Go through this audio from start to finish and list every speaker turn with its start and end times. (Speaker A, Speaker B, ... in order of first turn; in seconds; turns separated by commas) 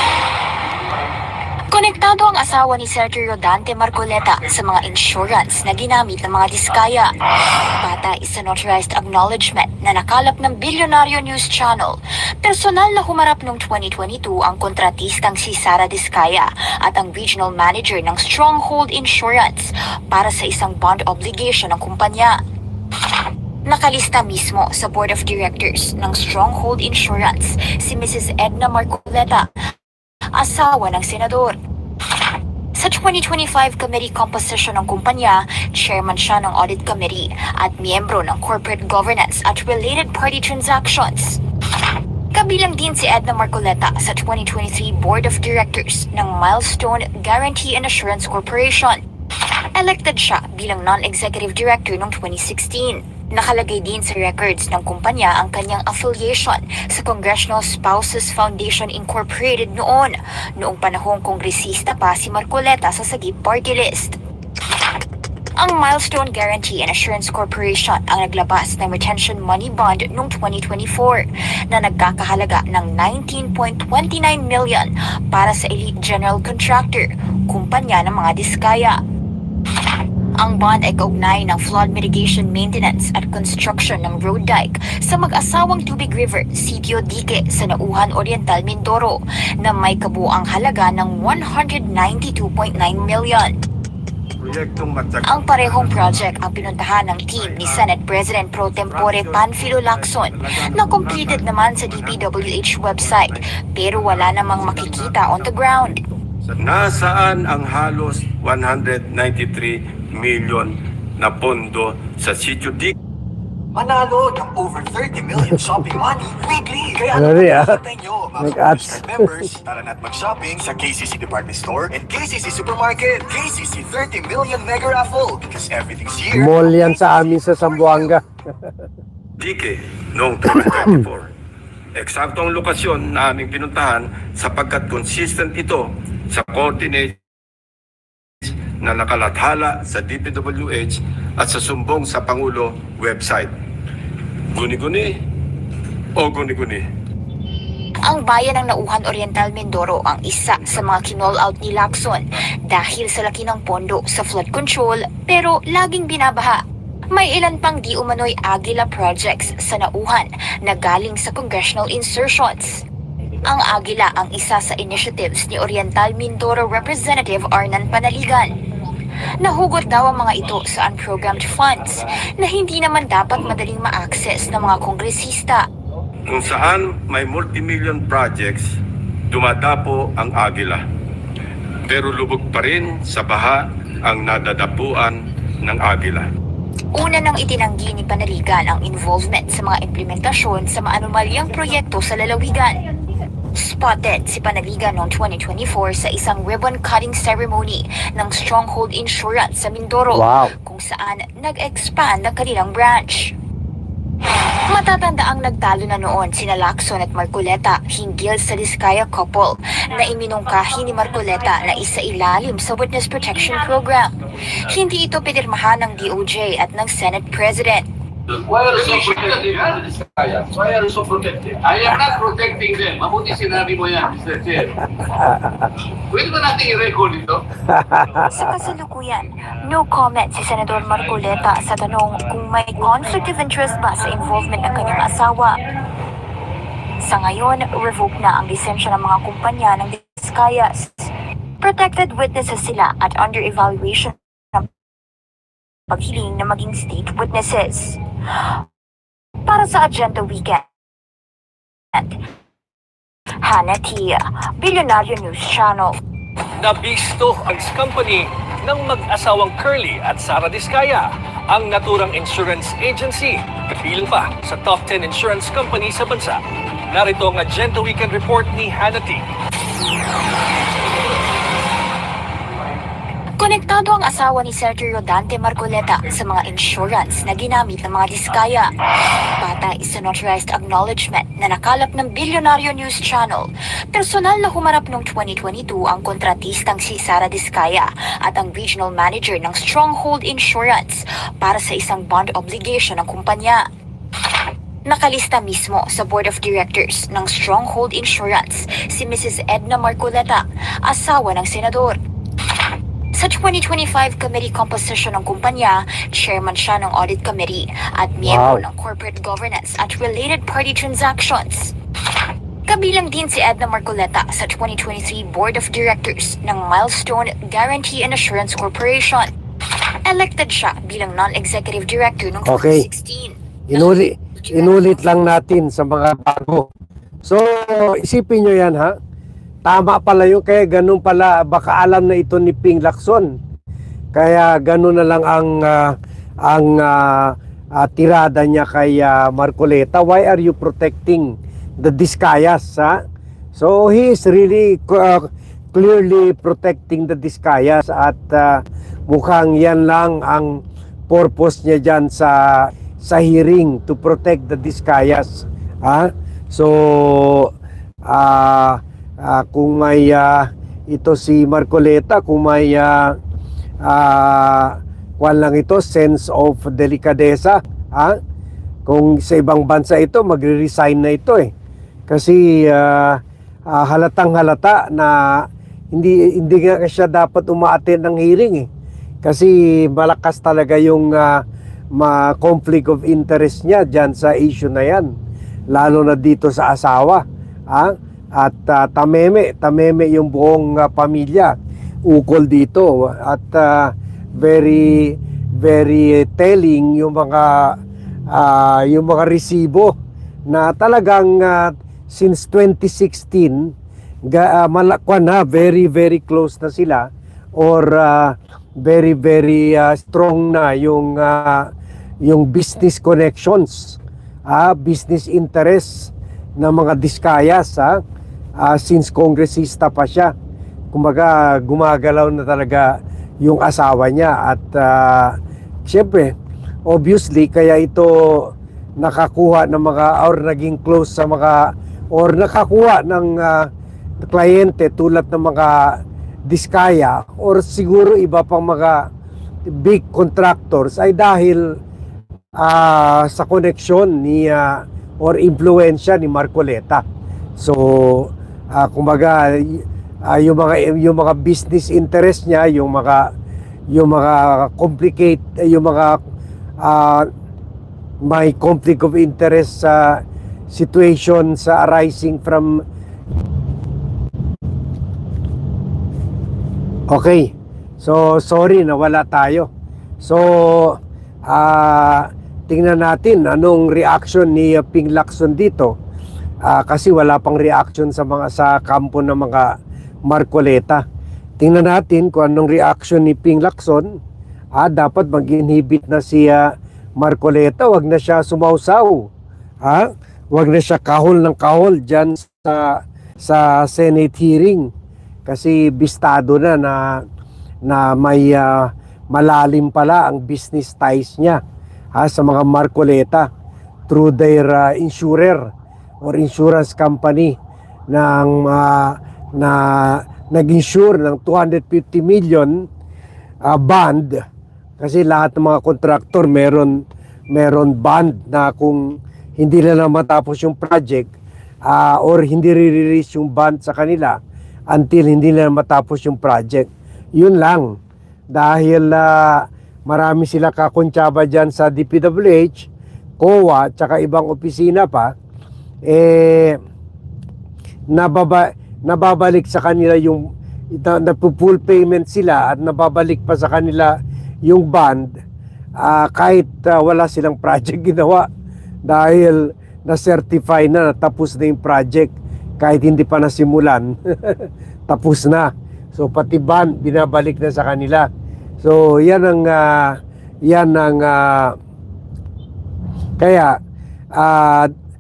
Speaker A: 1.7-22.4, Speaker A: 23.6-29.5, Speaker A: 30.3-31.6, Speaker A: 32.7-41.4, Speaker A: 42.3-49.0, Speaker A: 49.7-64.2, Speaker A: 65.5-79.0, Speaker A: 80.4-93.6, Speaker B: 94.4-96.1, Speaker A: 95.2-106.0, Speaker B: 99.0-99.5, Speaker B: 100.6-101.4, Speaker B: 106.6-112.9, Speaker C: 113.7-127.2, Speaker D: 117.1-117.8, Speaker D: 118.4-119.1, Speaker D: 126.3-128.2, Speaker B: 129.4-131.2, Speaker B: 131.9-137.1, Speaker B: 138.8-143.5, Speaker B: 144.5-145.1, Speaker B: 146.2-146.8, Speaker A: 148.0-162.8, Speaker A: 163.4-168.5, Speaker A: 169.4-175.6, Speaker B: 176.3-178.6, Speaker B: 179.3-180.8, Speaker B: 181.8-186.2, Speaker A: 186.9-192.8, Speaker A: 193.5-203.3, Speaker D: 200.1-200.5, Speaker A: 204.5-217.8, Speaker E: 218.5-224.4, Speaker D: 225.0-225.7, Speaker E: 226.1-227.2, Speaker D: 227.7-228.2, Speaker A: 228.2-235.6, Speaker A: 237.0-244.7, Speaker A: 245.9-248.0, Speaker A: 249.4-250.7, Speaker A: 253.4-255.9, Speaker F: 256.6-269.2, Speaker A: 273.4-278.7, Speaker A: 279.4-293.6, Speaker A: 294.9-302.0, Speaker A: 303.1-311.7, Speaker D: 308.2-308.6, Speaker A: 312.7-319.3, Speaker A: 319.9-325.1, Speaker D: 322.4-322.9, Speaker D: 323.7-326.7, Speaker D: 327.2-328.9, Speaker D: 329.6-333.3, Speaker D: 334.1-343.0, Speaker D: 343.5-357.5, Speaker D: 358.1-363.2, Speaker D: 363.8-368.2, Speaker D: 368.9-371.5, Speaker D: 372.1-378.7, Speaker D: 379.2-381.4, Speaker D: 381.9-385.1, Speaker D: 385.7-397.8, Speaker D: 398.3-399.9, Speaker D: 400.5-403.7, Speaker D: 404.2-411.7, Speaker D: 412.2-418.0, Speaker D: 418.6-420.3, Speaker D: 420.9-426.3, Speaker D: 426.9-433.7, Speaker D: 434.2-439.1, Speaker D: 439.6-441.8, Speaker D: 442.6-447.0, Speaker D: 447.6-453.3, Speaker D: 453.9-456.2, Speaker D: 456.8-457.3, Speaker D: 458.2-462.8, Speaker D: 467.1-469.7, Speaker D: 470.2-475.9, Speaker D: 476.6-479.7, Speaker D: 480.2-481.0, Speaker D: 481.6-484.2, Speaker D: 484.7-489.3, Speaker D: 489.8-494.9, Speaker D: 495.4-497.2, Speaker D: 497.8-501.6, Speaker D: 502.1-503.5, Speaker D: 504.1-505.7, Speaker D: 506.2-507.6, Speaker D: 508.1-512.9, Speaker D: 513.6-514.4, Speaker D: 515.0-521.3, Speaker D: 521.8-524.4, Speaker D: 524.9-528.0, Speaker D: 528.5-532.9, Speaker D: 533.4-535.3, Speaker D: 536.0-536.8, Speaker D: 538.1-545.4, Speaker D: 546.0-548.5, Speaker D: 549.0-558.3, Speaker D: 558.8-561.8, Speaker D: 563.4-563.8, Speaker D: 564.3-564.9